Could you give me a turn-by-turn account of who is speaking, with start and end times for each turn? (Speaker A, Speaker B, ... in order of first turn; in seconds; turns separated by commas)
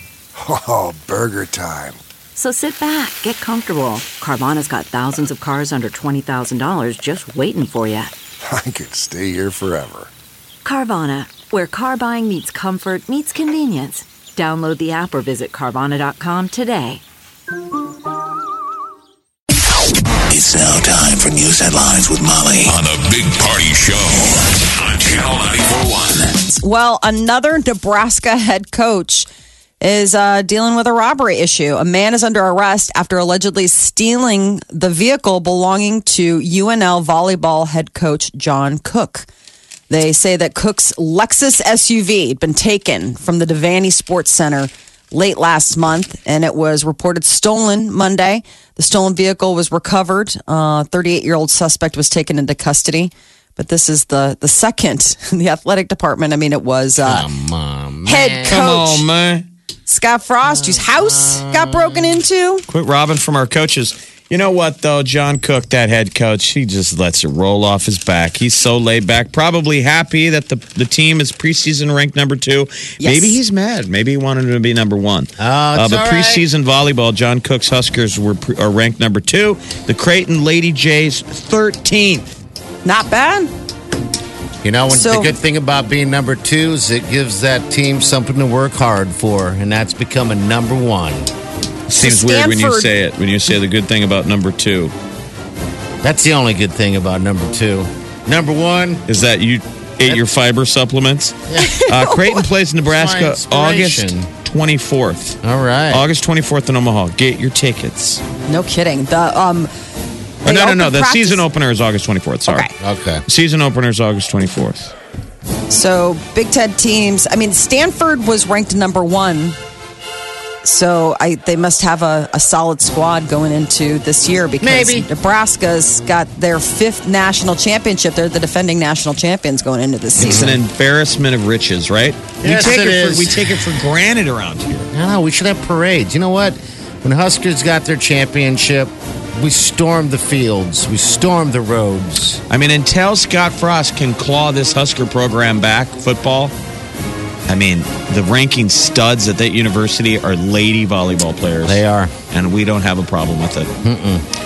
Speaker A: 0.4-2.0, Speaker B: 2.4-8.1, Speaker A: 8.4-10.1, Speaker B: 10.6-17.0, Speaker C: 20.3-26.4, Speaker D: 26.5-29.3, Speaker D: 29.8-39.3, Speaker D: 39.9-57.3, Speaker E: 57.0-58.7, Speaker D: 58.1-59.0, Speaker F: 58.5-59.5, Speaker D: 59.9-62.7, Speaker E: 60.5-62.2, Speaker F: 62.7-82.3, Speaker D: 73.0-73.4, Speaker E: 75.4-76.4, Speaker D: 82.8-83.5, Speaker E: 84.6-91.3, Speaker D: 84.9-85.3, Speaker F: 91.9-94.9, Speaker D: 92.0-92.9, Speaker E: 96.0-99.1, Speaker F: 99.1-105.4, Speaker D: 101.6-102.5, Speaker E: 102.9-104.3, Speaker E: 105.4-106.0, Speaker F: 105.9-108.2, Speaker D: 108.5-109.7, Speaker D: 110.4-111.4, Speaker F: 110.4-112.7, Speaker E: 112.8-113.2, Speaker F: 113.3-114.9, Speaker D: 115.7-119.6, Speaker D: 120.6-130.5, Speaker E: 124.6-125.1, Speaker E: 130.2-130.6, Speaker F: 130.2-134.9, Speaker E: 132.4-133.6, Speaker E: 134.9-142.4, Speaker F: 142.5-146.5, Speaker F: 147.5-153.7, Speaker E: 151.7-152.1, Speaker E: 153.8-154.2